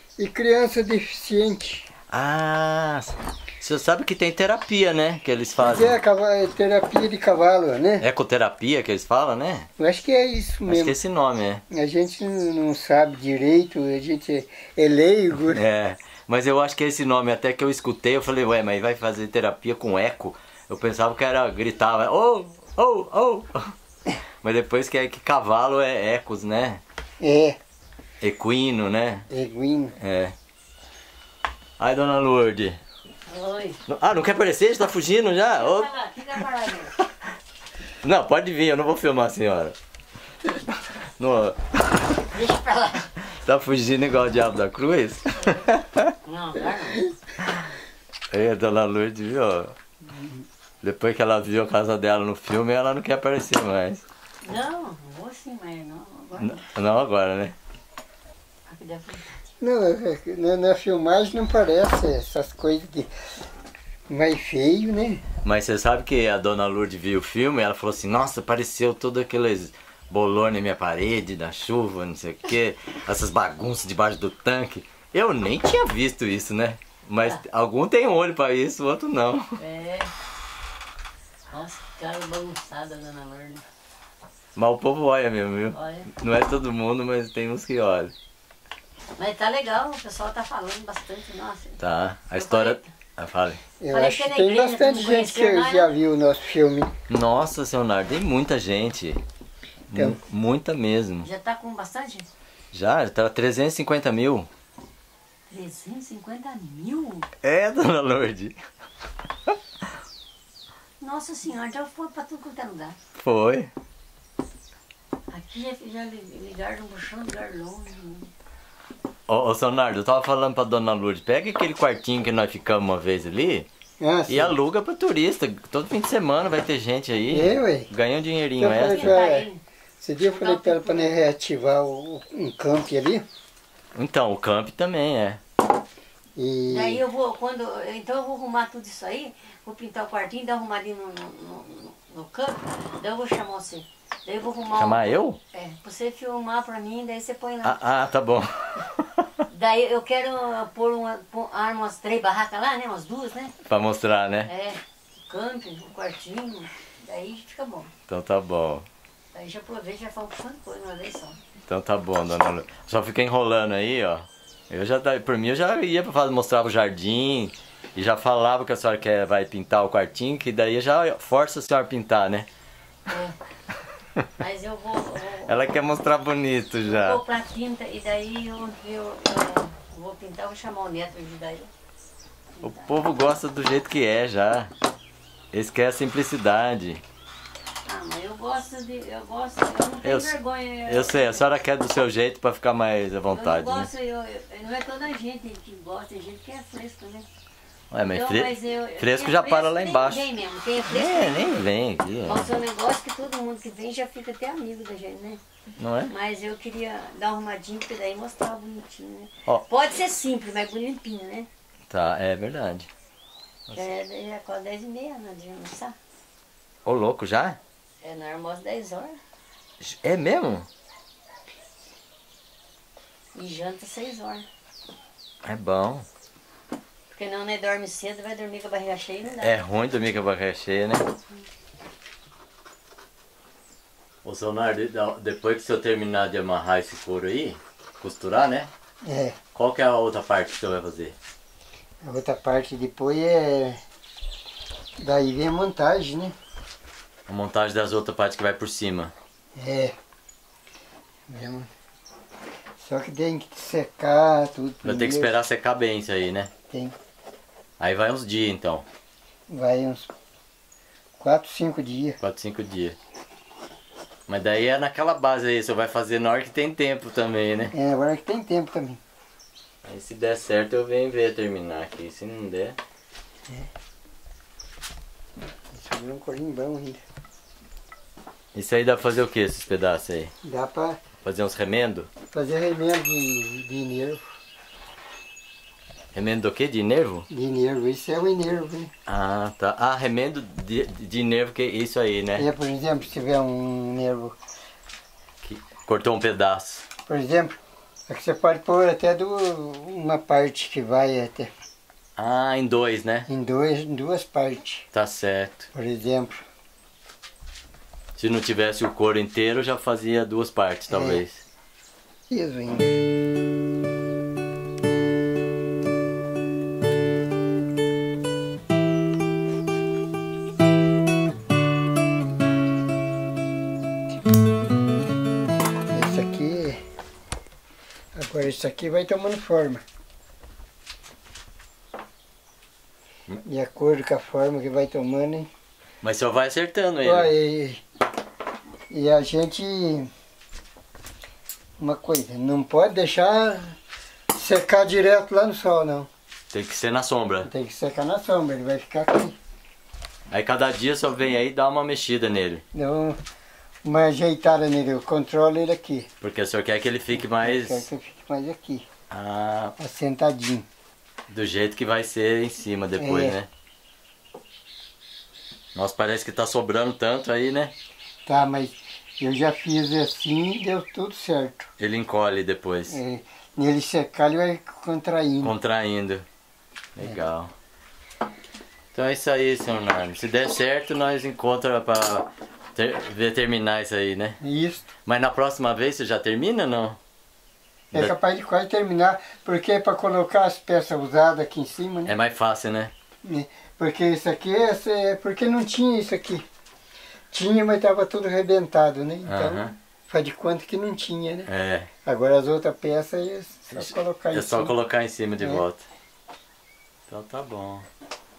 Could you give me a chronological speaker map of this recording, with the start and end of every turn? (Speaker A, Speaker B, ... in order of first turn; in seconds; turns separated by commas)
Speaker A: 0.2-1.9, Speaker B: 2.1-6.0, Speaker A: 5.6-8.1, Speaker B: 8.0-9.7, Speaker A: 9.8-11.0, Speaker B: 10.7-11.6, Speaker A: 11.7-15.6, Speaker B: 15.3-23.7, Speaker B: 24.4-26.8, Speaker A: 27.2-27.6, Speaker B: 28.2-29.3, Speaker A: 29.3-30.0, Speaker B: 30.0-30.4, Speaker B: 31.8-32.8, Speaker C: 33.3-33.8, Speaker B: 33.9-35.9, Speaker C: 35.5-37.0, Speaker B: 38.0-39.8, Speaker B: 41.2-42.4, Speaker C: 42.3-43.1, Speaker B: 43.2-46.2, Speaker C: 46.2-47.1, Speaker B: 47.4-47.7, Speaker B: 48.3-49.8, Speaker B: 50.8-54.0, Speaker C: 54.4-56.7, Speaker B: 56.4-57.6, Speaker C: 58.7-59.4, Speaker A: 59.6-63.1, Speaker A: 64.1-65.2, Speaker B: 65.4-79.6, Speaker C: 79.6-80.1, Speaker C: 81.5-83.7, Speaker B: 84.6-88.1, Speaker C: 85.7-86.1, Speaker C: 89.2-91.8, Speaker B: 91.8-93.6, Speaker C: 92.3-92.9, Speaker A: 93.8-96.9, Speaker C: 93.9-95.9, Speaker B: 97.1-99.2, Speaker B: 99.9-101.3, Speaker C: 101.2-102.3, Speaker B: 102.7-104.5, Speaker C: 105.5-107.3, Speaker B: 107.4-108.6, Speaker C: 111.0-113.0, Speaker B: 113.2-113.7, Speaker C: 115.3-118.3, Speaker B: 119.3-123.7, Speaker A: 124.0-124.6, Speaker B: 124.3-129.2, Speaker A: 127.3-127.9, Speaker A: 128.6-129.5, Speaker C: 128.7-129.6, Speaker A: 130.0-133.3, Speaker C: 130.3-131.3, Speaker B: 133.9-135.4, Speaker A: 136.4-137.0, Speaker C: 136.7-147.8, Speaker B: 144.8-145.4, Speaker B: 147.6-149.5, Speaker C: 149.5-153.6, Speaker B: 153.7-154.5, Speaker C: 154.5-157.9, Speaker B: 158.1-158.9, Speaker C: 159.3-161.4, Speaker B: 161.7-172.5, Speaker C: 173.1-173.4, Speaker C: 174.4-175.6, Speaker B: 175.5-177.2, Speaker C: 176.9-181.7, Speaker C: 182.6-182.9, Speaker B: 182.6-184.7, Speaker B: 185.5-187.0, Speaker C: 187.9-191.4, Speaker B: 190.0-193.9, Speaker C: 193.3-197.3, Speaker B: 197.9-200.3, Speaker C: 198.1-201.7, Speaker B: 200.9-202.5, Speaker C: 202.2-205.4, Speaker B: 205.8-206.1, Speaker C: 206.1-211.5, Speaker B: 211.9-212.9, Speaker C: 213.8-215.9, Speaker B: 216.8-217.6, Speaker C: 218.0-219.2, Speaker B: 219.8-220.7, Speaker C: 223.3-224.4, Speaker B: 225.4-226.1, Speaker C: 227.1-229.5, Speaker B: 229.4-231.1, Speaker B: 234.2-238.7, Speaker A: 239.1-239.4, Speaker B: 239.6-241.2, Speaker A: 242.0-243.8, Speaker A: 245.0-246.4, Speaker B: 247.3-249.1, Speaker A: 249.6-250.0, Speaker A: 251.3-251.7, Speaker A: 252.8-255.3, Speaker B: 254.8-256.5, Speaker B: 257.8-258.9, Speaker A: 259.5-260.1, Speaker A: 261.2-262.2, Speaker B: 262.2-263.0, Speaker B: 264.3-267.7, Speaker A: 267.7-269.0, Speaker B: 269.8-272.8, Speaker A: 275.7-277.0, Speaker B: 278.5-280.3, Speaker A: 280.4-281.0, Speaker B: 281.2-282.1, Speaker A: 282.3-284.3, Speaker B: 286.1-287.3, Speaker A: 287.3-288.9, Speaker B: 289.1-292.5, Speaker A: 292.4-294.4, Speaker B: 295.4-296.9, Speaker A: 297.1-301.5, Speaker B: 302.2-303.3, Speaker A: 303.3-304.9, Speaker B: 304.9-305.7, Speaker A: 305.7-306.4, Speaker B: 308.2-311.4, Speaker A: 310.9-311.2, Speaker A: 312.3-313.0, Speaker A: 325.9-326.8, Speaker A: 328.1-329.8, Speaker A: 333.4-335.5, Speaker B: 336.0-337.3, Speaker A: 337.0-337.8, Speaker A: 338.9-340.1, Speaker A: 341.8-343.8, Speaker A: 344.3-346.1, Speaker B: 346.5-347.5, Speaker A: 347.5-349.4, Speaker B: 350.3-352.6, Speaker A: 352.7-353.2, Speaker A: 353.8-356.1, Speaker B: 356.2-357.9, Speaker A: 357.4-358.9, Speaker B: 359.1-359.8, Speaker A: 359.8-360.7, Speaker B: 361.3-363.5, Speaker A: 363.0-363.4, Speaker B: 365.8-367.7, Speaker A: 368.3-371.7, Speaker B: 371.8-373.0, Speaker A: 372.9-375.5, Speaker B: 375.4-376.2, Speaker B: 377.0-377.5, Speaker B: 378.9-384.4, Speaker A: 384.4-384.9, Speaker B: 385.1-387.0, Speaker A: 387.9-392.1, Speaker B: 392.1-392.9, Speaker A: 393.2-396.5, Speaker A: 397.3-401.5, Speaker B: 399.3-399.8, Speaker B: 401.5-401.9, Speaker A: 402.1-404.8, Speaker B: 403.7-405.9, Speaker B: 407.1-407.9